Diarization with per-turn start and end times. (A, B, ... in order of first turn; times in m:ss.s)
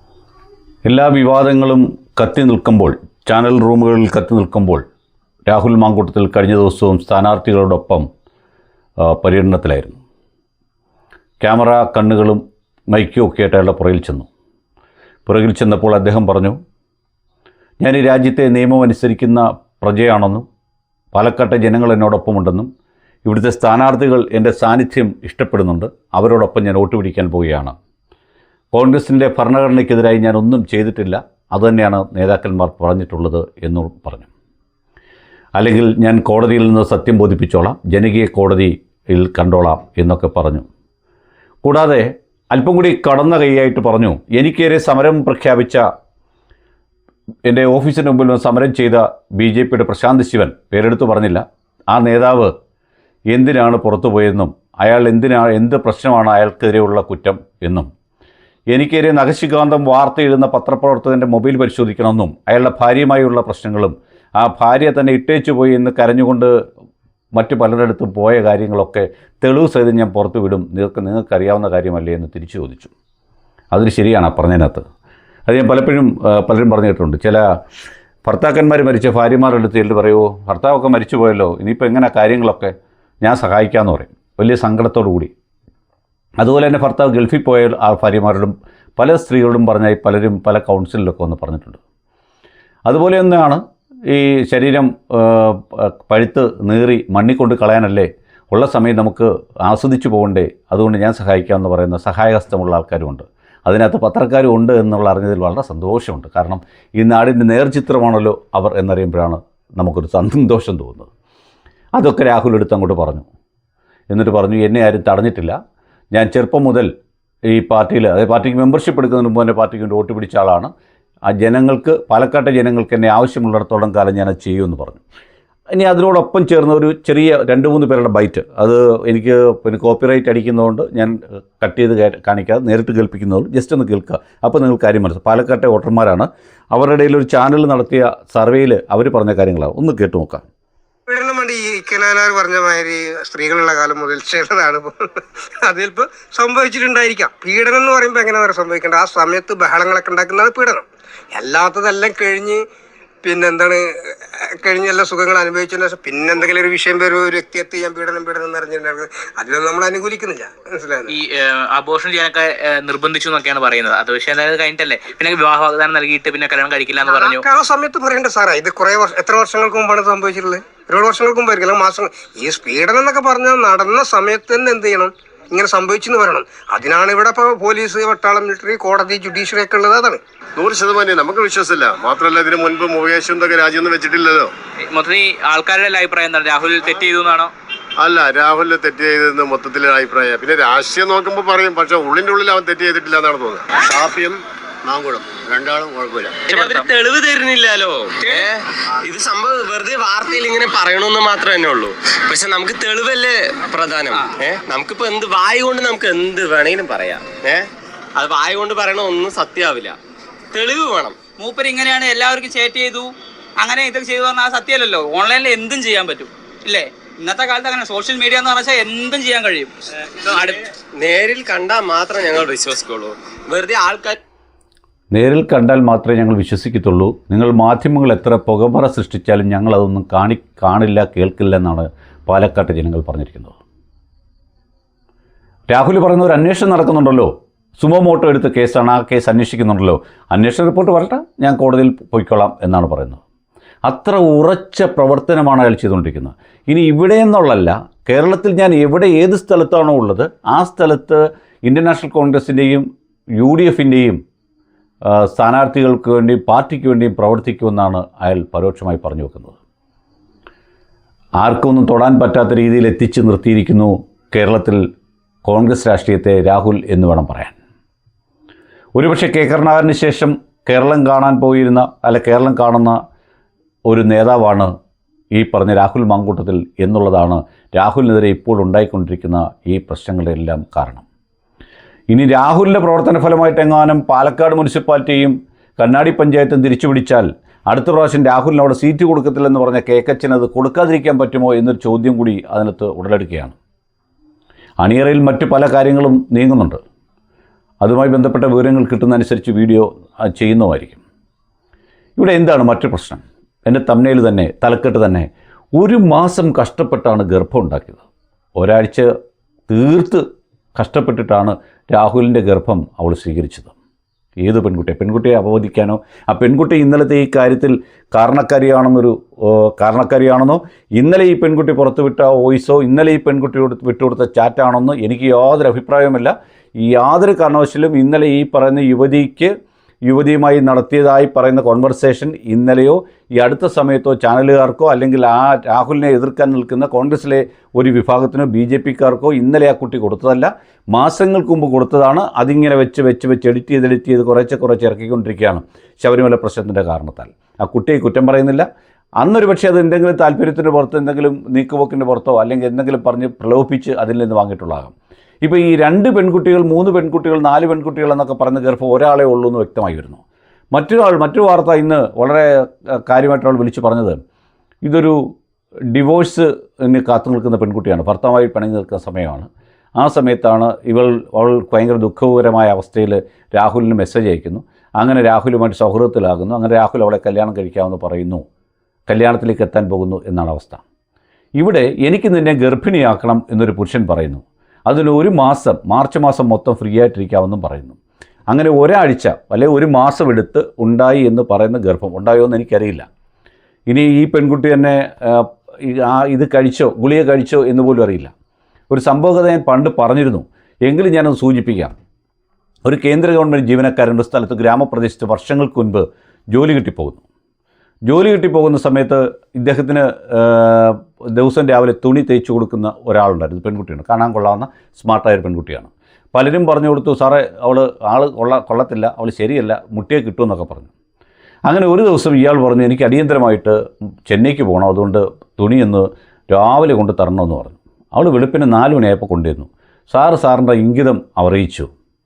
0:00.8-0:04.8 A
0:05.5-0:08.1 A
0:09.0-0:10.0 A
0:11.4-0:14.3 A
0:15.3-0:16.6 A
0:17.8-0:20.4 A
0:21.1-0:22.7 A
0:23.2-0:27.7 A
0:28.7-0:34.3 A
0:35.6-0:40.7 A
0:41.6-0:45.8 A
0:47.5-0:52.5 A
0:53.3-0:57.9 A
0:58.7-1:06.6 A
1:07.3-1:12.9 A
1:13.7-1:14.8 A
1:15.5-1:17.5 A
1:18.2-1:25.3 A
1:26.4-1:31.8 A
1:32.9-1:51.1 A
1:52.0-1:53.3 A
1:54.1-1:55.6 A
1:56.1-1:56.9 A
1:57.5-2:00.7 A
2:01.3-2:05.0 A
2:05.7-2:20.5 A
2:21.1-2:24.9 B
2:25.6-2:32.6 B
2:33.2-2:41.2 B
2:41.1-2:47.4 C
2:47.0-3:00.2 B
3:00.6-3:04.5 D
3:04.9-3:07.5 C
3:08.0-3:16.5 D
3:16.5-3:27.6 E
3:16.5-3:16.9 C
3:28.2-3:30.0 E
3:30.5-3:31.2 E
3:31.4-3:32.9 F
3:32.0-3:33.0 C
3:33.6-3:39.7 C
3:33.7-3:36.0 F
3:36.8-3:38.4 F
3:38.9-3:39.3 F
3:40.2-3:40.6 C
3:40.4-3:44.2 E
3:45.1-3:53.6 A
3:55.7-4:03.2 A
4:03.9-4:12.9 A
4:13.4-4:14.2 A
4:15.1-4:19.6 A
4:21.4-4:24.8 A
4:25.4-4:27.6 A
4:29.0-4:33.0 A
4:33.9-4:34.7 A
4:35.3-4:41.0 A
4:42.1-4:53.6 A
4:54.8-4:56.8 A
4:57.8-5:01.0 A
5:02.2-5:08.0 A
5:08.6-5:09.1 A
5:09.7-5:13.7 A
5:14.4-5:29.5 A
5:30.1-5:48.7 A
5:49.2-5:54.9 A
5:55.4-6:00.2 A
6:00.7-6:04.2 A
6:04.8-6:05.3 A
6:05.9-6:18.4 A
6:19.1-6:20.8 A
6:21.6-6:28.0 A
6:28.5-6:33.1 A
6:33.9-6:38.3 A
6:38.9-6:41.9 A
6:42.8-6:47.2 A
6:48.1-7:00.9 A
7:01.7-7:11.9 A